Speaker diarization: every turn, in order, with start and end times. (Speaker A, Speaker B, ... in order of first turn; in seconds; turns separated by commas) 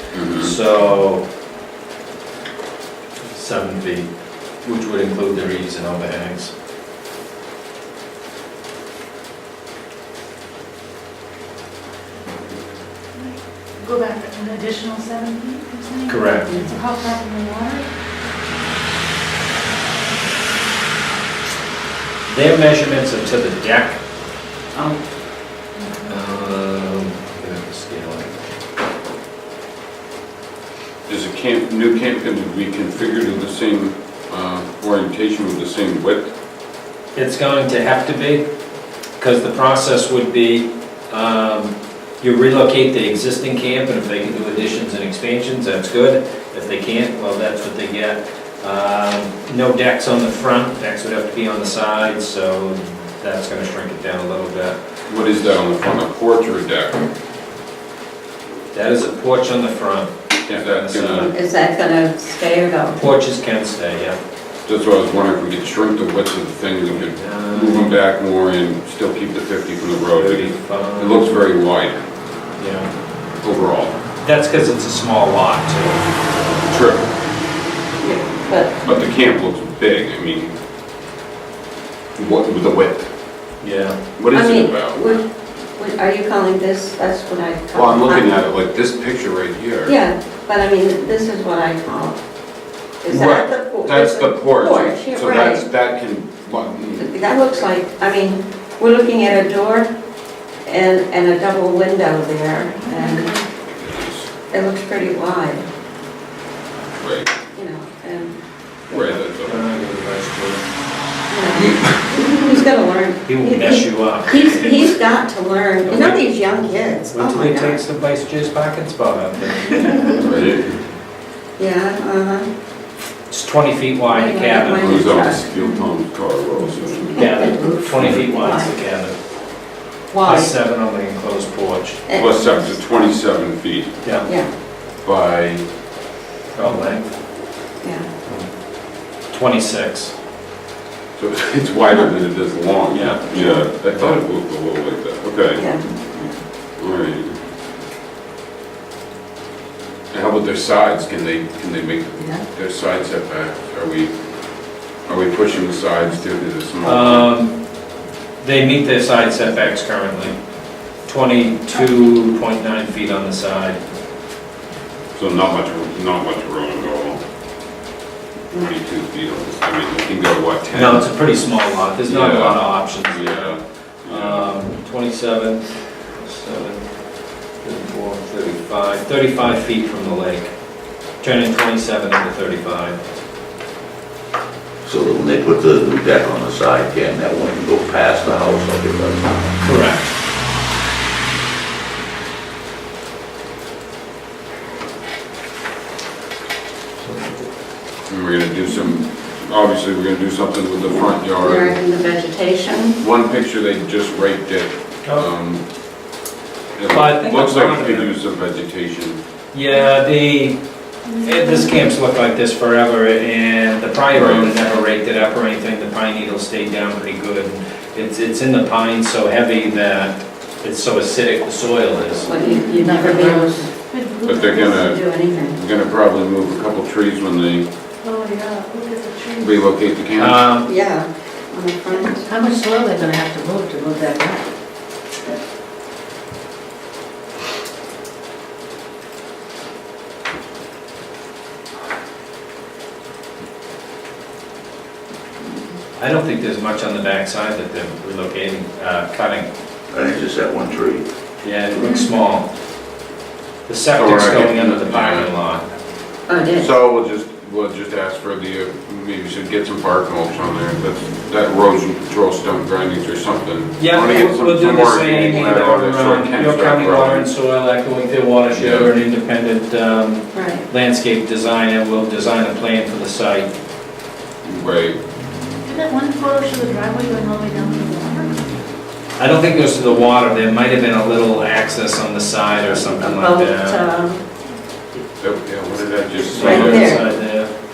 Speaker A: 0.1-0.5, Speaker B: 0.4-1.2, Speaker B: 3.2-4.1, Speaker B: 4.6-6.5, Speaker C: 13.1-17.9, Speaker B: 16.1-16.7, Speaker B: 22.3-24.0, Speaker C: 25.8-26.1, Speaker B: 26.1-28.3, Speaker A: 31.1-36.3, Speaker B: 37.1-38.5, Speaker B: 39.2-54.8, Speaker A: 55.1-57.1, Speaker B: 58.7-61.3, Speaker A: 60.5-61.3, Speaker D: 61.1-63.0, Speaker B: 62.9-64.2, Speaker A: 64.7-72.0, Speaker B: 66.9-67.9, Speaker B: 70.1-71.3, Speaker B: 72.6-72.9, Speaker A: 73.4-74.0, Speaker B: 74.2-76.1, Speaker A: 76.7-77.1, Speaker D: 78.0-79.0, Speaker A: 78.8-80.5, Speaker A: 82.2-83.1, Speaker B: 83.6-84.0, Speaker A: 84.2-85.2, Speaker D: 84.3-88.4, Speaker A: 87.7-90.0, Speaker D: 89.8-92.2, Speaker D: 93.0-95.7, Speaker A: 93.1-97.1, Speaker D: 97.0-99.9, Speaker D: 100.7-103.3, Speaker E: 102.9-103.4, Speaker C: 103.0-103.4, Speaker A: 103.6-104.3, Speaker D: 104.5-105.7, Speaker A: 107.0-107.3, Speaker D: 107.5-108.4, Speaker B: 108.9-110.7, Speaker A: 108.9-109.7, Speaker D: 111.3-117.8, Speaker B: 113.3-114.6, Speaker B: 115.8-116.2, Speaker B: 117.1-120.3, Speaker A: 120.2-120.8, Speaker D: 121.6-122.5, Speaker B: 123.3-125.1, Speaker D: 124.1-125.7, Speaker A: 124.8-127.3, Speaker D: 126.7-128.7, Speaker B: 127.2-129.2, Speaker A: 128.0-128.2, Speaker D: 130.1-130.5, Speaker B: 130.2-132.0, Speaker D: 132.1-132.8, Speaker A: 132.2-133.9, Speaker D: 134.2-134.5, Speaker A: 135.0-135.6, Speaker B: 136.5-137.2, Speaker D: 137.8-138.1, Speaker B: 139.3-140.1, Speaker A: 141.2-147.4, Speaker B: 142.9-144.2, Speaker D: 143.3-143.7, Speaker D: 145.5-145.8, Speaker A: 150.1-154.1, Speaker A: 155.1-157.3, Speaker B: 156.8-157.6, Speaker B: 158.4-160.4, Speaker B: 161.0-163.8, Speaker A: 165.1-167.2, Speaker A: 168.5-171.1, Speaker B: 170.7-176.8, Speaker A: 172.0-174.6, Speaker B: 177.6-180.5, Speaker B: 181.2-183.0, Speaker F: 184.8-189.6, Speaker B: 189.6-190.1, Speaker B: 197.0-197.4, Speaker A: 198.1-201.8, Speaker D: 201.0-203.0, Speaker A: 203.0-205.6, Speaker A: 206.8-209.2, Speaker B: 206.9-208.1, Speaker B: 209.5-210.6, Speaker B: 211.2-222.3, Speaker A: 214.1-214.6, Speaker D: 222.2-223.7, Speaker E: 222.5-223.9, Speaker C: 222.5-225.3, Speaker A: 224.2-227.7, Speaker D: 224.8-225.6, Speaker C: 228.0-229.6, Speaker A: 229.4-230.4, Speaker B: 230.1-230.7, Speaker D: 230.6-232.2, Speaker C: 231.9-233.2, Speaker E: 232.3-234.4, Speaker B: 246.0-249.5, Speaker F: 249.9-251.0, Speaker B: 251.4-252.5, Speaker B: 253.7-255.6, Speaker A: 253.9-255.3, Speaker D: 256.3-256.7, Speaker A: 256.6-267.3, Speaker B: 263.8-273.5, Speaker D: 265.3-265.6, Speaker A: 268.5-268.9, Speaker D: 270.3-270.6, Speaker A: 274.4-275.0, Speaker C: 275.6-278.4, Speaker B: 279.2-283.9, Speaker D: 282.8-284.2, Speaker A: 285.2-287.0, Speaker B: 286.2-287.5, Speaker D: 286.4-287.1